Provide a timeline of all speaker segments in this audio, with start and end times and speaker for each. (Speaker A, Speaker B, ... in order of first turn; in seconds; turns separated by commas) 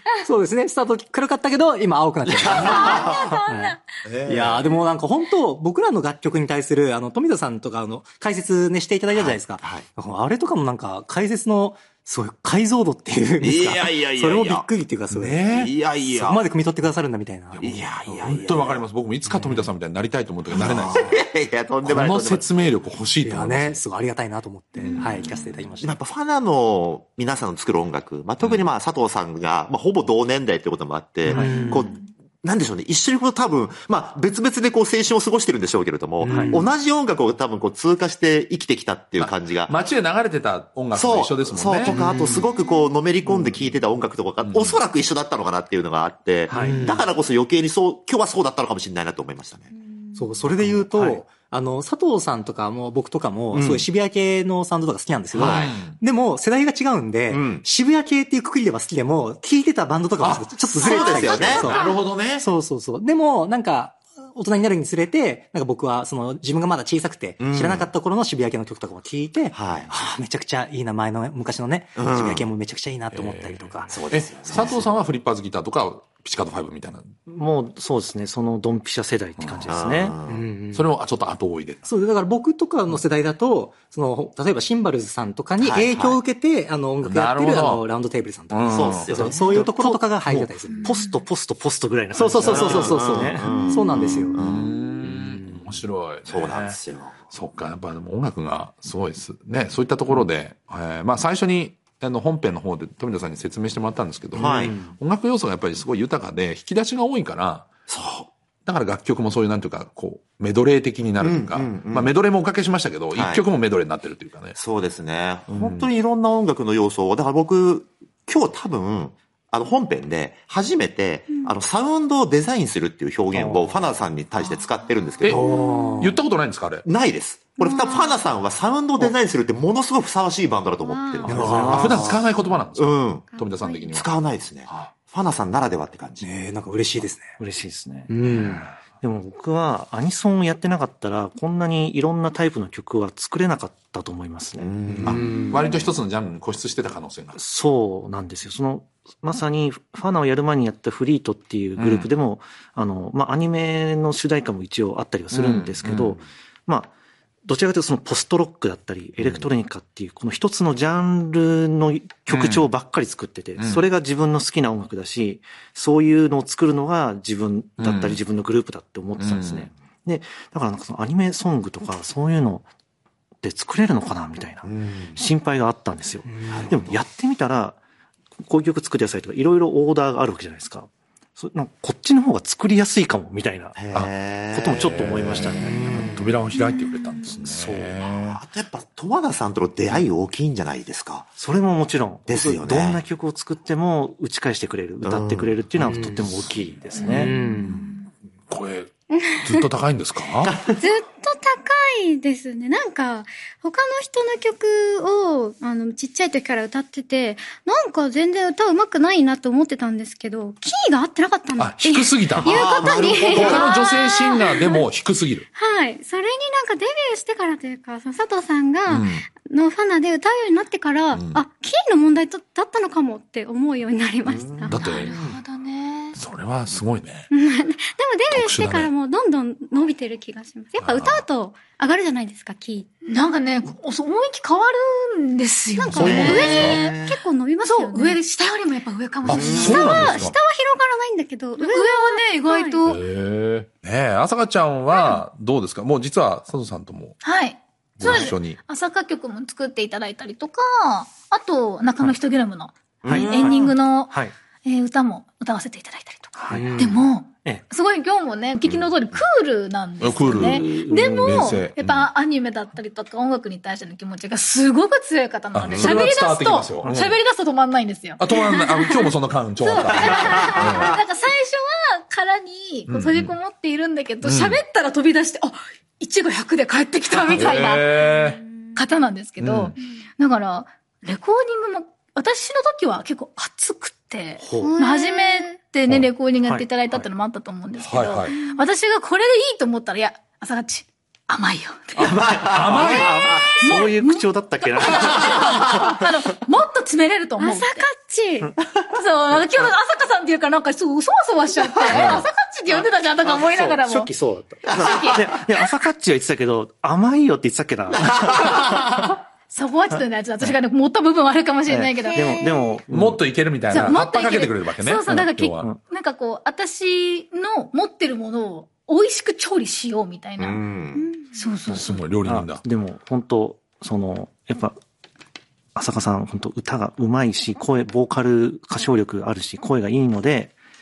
Speaker A: 0.2-18.3, Speaker B: 2.3-3.3, Speaker C: 2.5-3.8, Speaker D: 4.0-4.7, Speaker B: 4.3-4.6, Speaker B: 9.1-9.9, Speaker B: 13.4-14.7, Speaker D: 15.1-15.7, Speaker B: 15.5-16.4, Speaker D: 17.5-21.2, Speaker B: 17.6-18.8, Speaker A: 19.3-19.7, Speaker B: 20.5-22.7, Speaker D: 21.8-23.8, Speaker A: 23.2-26.0, Speaker B: 25.8-39.7, Speaker E: 31.3-31.6, Speaker A: 31.3-32.0, Speaker A: 36.2-36.7, Speaker E: 36.3-36.6, Speaker D: 39.2-42.0, Speaker B: 40.9-49.7, Speaker A: 41.9-42.5, Speaker F: 42.5-42.9, Speaker A: 43.3-43.5, Speaker D: 44.4-44.8, Speaker E: 46.5-46.9, Speaker A: 46.5-47.1, Speaker A: 50.2-73.9, Speaker E: 50.6-51.2, Speaker B: 53.5-53.9, Speaker D: 55.3-56.0, Speaker B: 55.4-55.7, Speaker B: 57.3-57.6, Speaker D: 60.2-60.8, Speaker B: 60.7-61.7, Speaker F: 61.1-61.7, Speaker D: 61.4-62.4, Speaker B: 67.4-67.9, Speaker B: 69.5-70.2, Speaker B: 72.0-72.5, Speaker D: 73.1-77.1, Speaker B: 73.9-74.9, Speaker E: 77.3-80.1, Speaker D: 79.4-79.7, Speaker B: 79.7-80.4, Speaker A: 80.3-80.9, Speaker D: 80.7-81.8, Speaker A: 81.8-90.9, Speaker B: 85.6-86.2, Speaker D: 87.0-87.8, Speaker D: 88.5-89.3, Speaker B: 88.7-89.5, Speaker E: 89.1-93.4, Speaker C: 90.7-91.2, Speaker A: 92.1-94.5, Speaker B: 92.4-94.7, Speaker D: 93.9-96.8, Speaker A: 95.0-95.8, Speaker B: 96.3-97.2, Speaker D: 97.3-107.7, Speaker B: 104.3-104.8, Speaker A: 104.4-105.0, Speaker B: 107.9-108.3, Speaker D: 108.7-114.6, Speaker B: 111.2-112.1, Speaker B: 113.1-113.4, Speaker B: 114.6-125.4, Speaker E: 123.3-123.8, Speaker F: 124.4-126.1, Speaker D: 125.2-126.8, Speaker A: 125.2-126.2, Speaker B: 126.8-133.3, Speaker F: 127.6-128.2, Speaker F: 130.8-131.3, Speaker A: 131.3-131.8, Speaker D: 131.3-134.2, Speaker E: 131.3-132.0, Speaker F: 133.3-134.0, Speaker B: 133.9-136.3, Speaker D: 134.7-134.9, Speaker A: 136.2-137.2, Speaker E: 137.4-138.1, Speaker A: 138.1-138.7, Speaker D: 138.2-138.7, Speaker E: 139.0-144.7, Speaker B: 144.6-145.3, Speaker A: 144.9-145.8, Speaker D: 145.0-147.4, Speaker E: 147.3-156.9, Speaker D: 151.8-152.1, Speaker D: 155.3-156.2, Speaker E: 157.5-172.7, Speaker D: 162.3-162.7, Speaker D: 163.6-163.9, Speaker D: 167.8-168.2, Speaker D: 169.2-169.7, Speaker E: 173.4-177.8, Speaker B: 174.7-175.2, Speaker A: 176.3-176.7, Speaker E: 178.5-183.8, Speaker B: 183.8-185.6, Speaker E: 184.5-186.1, Speaker D: 184.9-188.4, Speaker A: 185.6-186.3, Speaker F: 186.7-187.3, Speaker B: 187.4-191.3, Speaker E: 191.4-197.3, Speaker B: 192.3-193.0, Speaker B: 195.0-195.6, Speaker A: 195.8-196.2, Speaker F: 197.0-197.6, Speaker A: 197.1-197.8, Speaker D: 197.7-200.5, Speaker F: 199.1-199.7, Speaker F: 200.7-214.9, Speaker D: 211.6-212.6, Speaker B: 212.4-213.8, Speaker D: 213.1-215.4, Speaker F: 215.6-224.9, Speaker D: 218.9-219.2, Speaker D: 221.1-221.4, Speaker B: 224.3-225.4, Speaker D: 224.7-225.2, Speaker C: 224.7-226.2, Speaker D: 226.2-227.3, Speaker F: 227.3-232.9, Speaker D: 228.3-228.9, Speaker D: 230.8-231.3, Speaker C: 233.1-237.1, Speaker F: 235.8-238.2, Speaker D: 235.8-236.8, Speaker B: 236.0-237.2, Speaker C: 237.6-240.2, Speaker D: 239.2-240.4, Speaker B: 239.3-239.7, Speaker F: 239.4-242.9, Speaker C: 241.6-243.0, Speaker D: 242.8-247.2, Speaker C: 244.9-245.2, Speaker C: 247.2-269.1, Speaker D: 248.0-248.6, Speaker E: 248.0-248.4, Speaker B: 253.0-253.6, Speaker E: 253.1-254.3, Speaker E: 256.4-256.9, Speaker A: 256.5-257.0, Speaker B: 258.6-259.2, Speaker D: 260.0-262.1, Speaker E: 260.3-261.6, Speaker D: 265.5-267.1, Speaker B: 265.7-266.1, Speaker E: 266.8-267.2, Speaker D: 268.2-271.0, Speaker C: 269.6-292.1, Speaker D: 272.9-273.4, Speaker D: 274.2-274.6, Speaker D: 277.3-278.4, Speaker F: 277.5-278.7, Speaker D: 279.4-279.8, Speaker E: 284.4-284.8, Speaker F: 284.5-285.6, Speaker E: 285.9-287.1, Speaker D: 287.8-288.4, Speaker F: 288.3-288.7, Speaker E: 292.0-295.5, Speaker D: 292.5-293.3, Speaker B: 292.6-293.1, Speaker C: 293.3-297.9, Speaker F: 297.4-298.5, Speaker C: 298.9-304.1, Speaker E: 301.9-308.8, Speaker C: 304.7-305.4, Speaker C: 309.5-312.4, Speaker E: 311.7-313.2, Speaker F: 312.0-312.8, Speaker D: 312.9-315.7, Speaker C: 313.7-320.6, Speaker E: 315.1-315.8, Speaker B: 320.4-321.1, Speaker F: 321.0-321.4, Speaker C: 321.3-321.9, Speaker E: 321.7-324.8, Speaker D: 321.7-322.6, Speaker E: 325.8-330.6